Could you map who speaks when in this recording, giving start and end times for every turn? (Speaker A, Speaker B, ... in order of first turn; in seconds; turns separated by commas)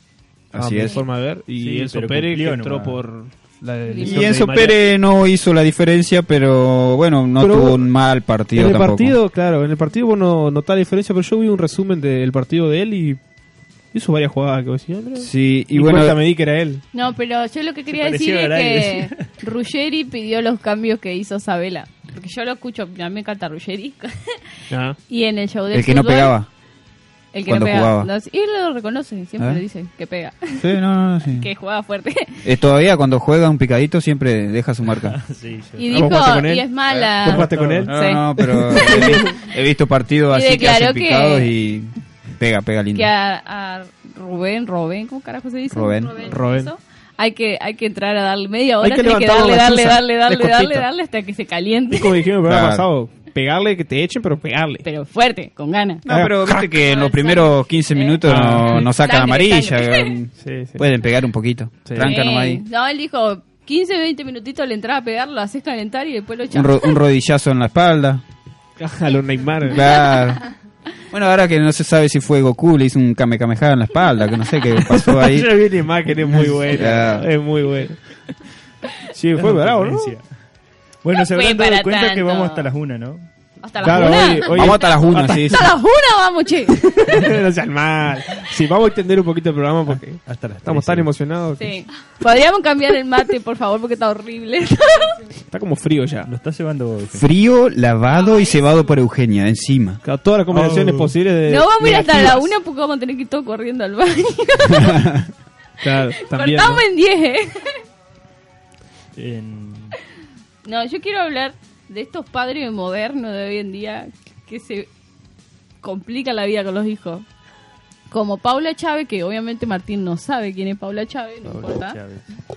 Speaker A: 0.5-1.0, Speaker B: 0.6-4.8, Speaker C: 1.6-3.0, Speaker D: 3.9-4.4, Speaker A: 4.0-9.2, Speaker B: 7.4-7.9, Speaker B: 8.5-13.2, Speaker B: 13.9-16.8, Speaker A: 15.2-16.2, Speaker D: 16.9-24.4, Speaker C: 17.9-19.3, Speaker B: 24.7-25.0, Speaker D: 25.1-26.4, Speaker A: 25.7-26.5, Speaker D: 27.3-30.6, Speaker A: 27.4-28.1, Speaker A: 30.6-31.5, Speaker D: 31.4-32.5, Speaker A: 32.4-35.2, Speaker C: 35.0-36.2, Speaker D: 35.8-38.3, Speaker B: 35.9-39.3, Speaker C: 36.9-37.9, Speaker A: 37.9-43.1, Speaker D: 40.3-41.5, Speaker D: 42.9-52.3, Speaker A: 45.7-46.4, Speaker B: 46.2-46.7, Speaker B: 48.8-50.9, Speaker B: 51.9-54.9, Speaker A: 52.5-52.9, Speaker D: 54.9-56.0, Speaker B: 56.1-56.8, Speaker A: 56.1-62.6, Speaker D: 56.8-60.1, Speaker B: 58.2-58.9, Speaker B: 60.4-60.9, Speaker B: 61.9-62.2, Speaker D: 62.0-67.0, Speaker A: 66.5-68.2, Speaker B: 68.8-70.0, Speaker A: 69.7-70.5, Speaker A: 71.1-75.7, Speaker B: 75.0-78.0, Speaker A: 76.2-77.3, Speaker B: 79.1-80.2, Speaker C: 79.4-80.4, Speaker C: 81.0-83.3, Speaker D: 81.3-82.7, Speaker D: 83.6-87.2, Speaker B: 83.8-85.7, Speaker A: 83.9-85.7, Speaker B: 86.8-91.7, Speaker C: 89.9-91.1, Speaker D: 91.6-95.2, Speaker B: 95.5-96.3, Speaker C: 96.2-97.3, Speaker A: 97.2-100.0, Speaker B: 100.0-102.5, Speaker C: 100.5-101.2, Speaker D: 101.5-105.1, Speaker A: 104.9-105.2, Speaker B: 105.8-106.8, Speaker D: 106.2-107.8, Speaker C: 109.2-110.0, Speaker D: 110.7-114.9, Speaker D: 115.8-117.3, Speaker D: 118.1-122.0, Speaker C: 121.5-122.3